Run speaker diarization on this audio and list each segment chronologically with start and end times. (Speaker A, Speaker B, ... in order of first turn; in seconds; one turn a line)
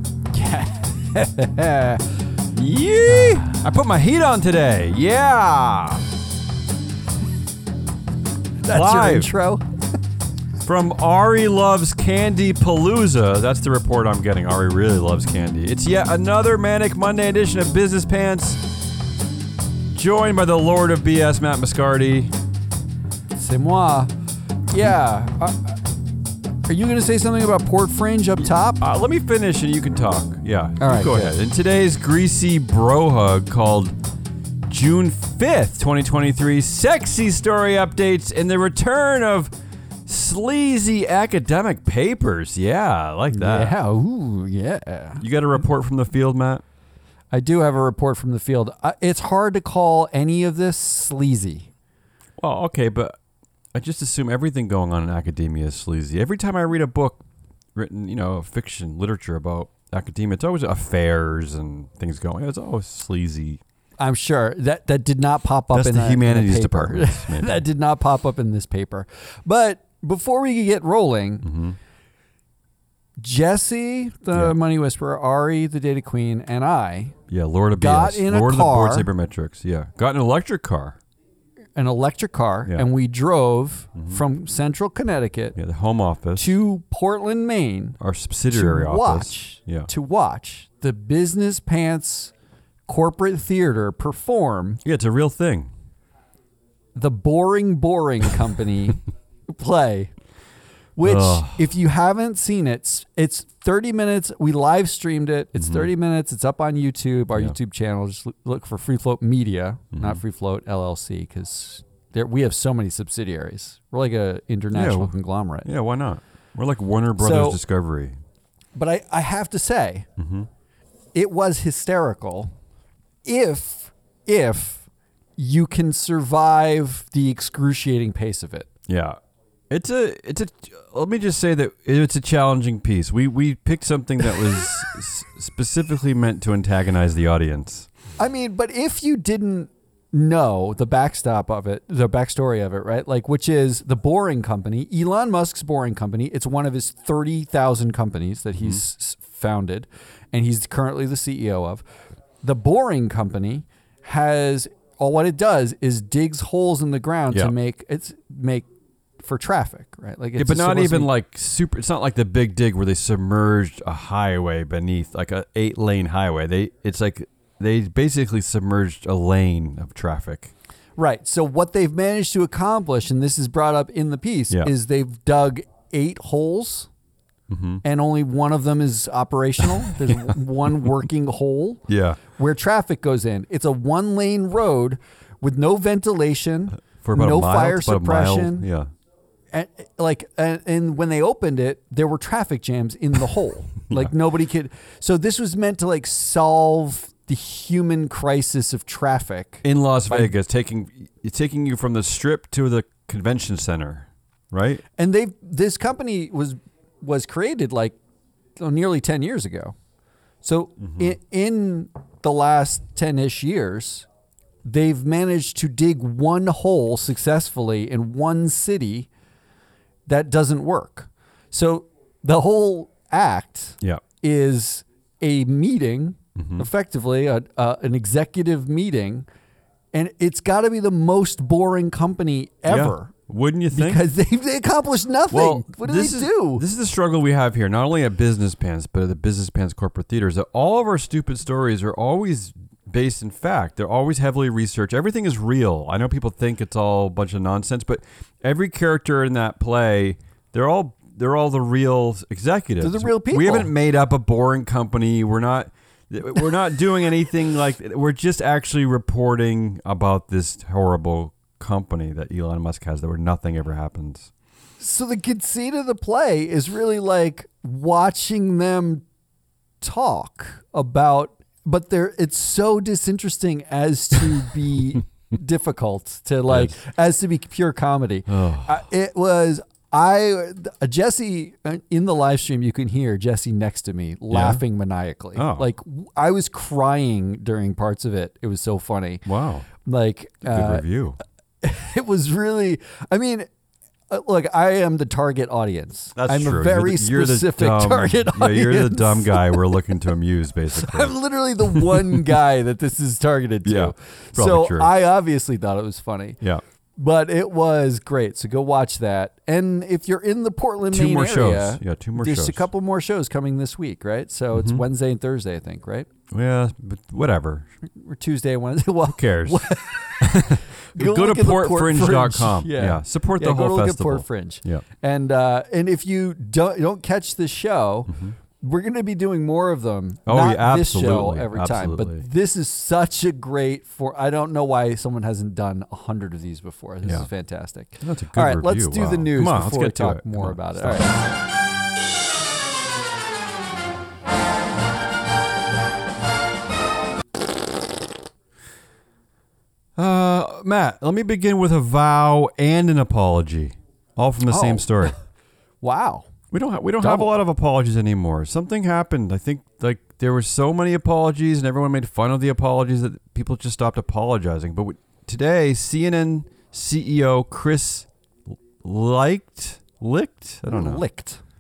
Speaker A: 0.3-2.0
Speaker B: 2.5-6.0
Speaker A: 8.6-9.6
Speaker B: 8.7-9.3
Speaker B: 10.6-18.7
Speaker B: 19.9-22.3
Speaker A: 23.4-24.1
Speaker A: 24.7-25.8
Speaker A: 26.7-28.8
Speaker B: 28.8-34.0
Speaker A: 30.8-31.4
Speaker B: 34.6-39.5
Speaker B: 40.1-43.7
Speaker A: 43.3-45.2
Speaker B: 45.2-46.6
Speaker A: 47.3-51.7
Speaker B: 52.4-53.2
Speaker B: 53.7-57.2
Speaker B: 57.8-63.6
Speaker A: 64.0-71.5
Speaker B: 65.7-67.7
Speaker B: 71.4-71.8
Speaker A: 73.2-77.2
Speaker B: 77.3-81.0
Speaker A: 77.8-79.1
Speaker A: 81.8-85.6
Speaker B: 84.0-84.2
Speaker B: 85.6-86.5
Speaker A: 86.4-88.0
Speaker B: 88.0-89.9
Speaker A: 88.5-92.3
Speaker A: 92.9-94.8
Speaker B: 94.8-95.7
Speaker A: 97.0-100.1
Speaker A: 101.0-115.7
Speaker B: 101.0-101.7
Speaker B: 105.6-105.9
Speaker B: 109.9-110.2
Speaker B: 114.7-115.1
Speaker B: 115.7-118.2
Speaker A: 117.2-117.6
Speaker A: 118.8-120.1
Speaker B: 120.2-120.5
Speaker A: 121.2-122.5
Speaker A: 123.2-124.9
Speaker A: 125.4-128.7
Speaker B: 128.9-129.2
Speaker B: 129.7-137.9
Speaker A: 138.2-151.8
Speaker A: 152.4-158.7
Speaker A: 159.2-161.1
Speaker B: 160.4-170.5
Speaker A: 171.0-176.9
Speaker B: 177.5-177.8
Speaker A: 177.8-188.7
Speaker B: 180.1-180.3
Speaker B: 181.9-182.2
Speaker B: 187.0-188.9
Speaker A: 189.5-200.3
Speaker B: 199.6-204.8
Speaker A: 205.0-208.0
Speaker A: 208.6-209.8
Speaker A: 210.4-214.1
Speaker B: 210.8-211.1
Speaker A: 214.7-219.1
Speaker A: 220.1-229.3
Speaker B: 226.4-226.7
Speaker A: 229.9-233.1
Speaker B: 232.7-234.1
Speaker A: 233.7-236.7
Speaker B: 235.3-264.3
Speaker A: 252.8-253.7
Speaker A: 264.8-269.1
Speaker A: 269.8-289.2
Speaker B: 278.3-278.8
Speaker B: 284.3-284.6
Speaker B: 285.4-285.7
Speaker B: 289.3-289.7
Speaker A: 289.8-290.9
Speaker B: 290.4-291.2
Speaker A: 291.6-293.5
Speaker A: 294.1-299.8
Speaker B: 296.2-301.1
Speaker A: 300.7-306.4
Speaker B: 301.7-302.2
Speaker B: 303.6-304.9
Speaker A: 307.0-316.1
Speaker B: 310.9-312.7
Speaker B: 314.5-314.8
Speaker B: 316.3-317.7
Speaker A: 317.8-341.2
Speaker B: 319.1-319.7
Speaker B: 320.2-324.8
Speaker B: 328.1-328.4
Speaker B: 330.3-332.3
Speaker B: 338.0-341.2
Speaker B: 350.0-355.1
Speaker A: 354.5-355.2
Speaker A: 355.8-356.3
Speaker B: 356.5-368.1
Speaker A: 357.0-357.3
Speaker B: 368.8-371.0
Speaker A: 370.7-371.4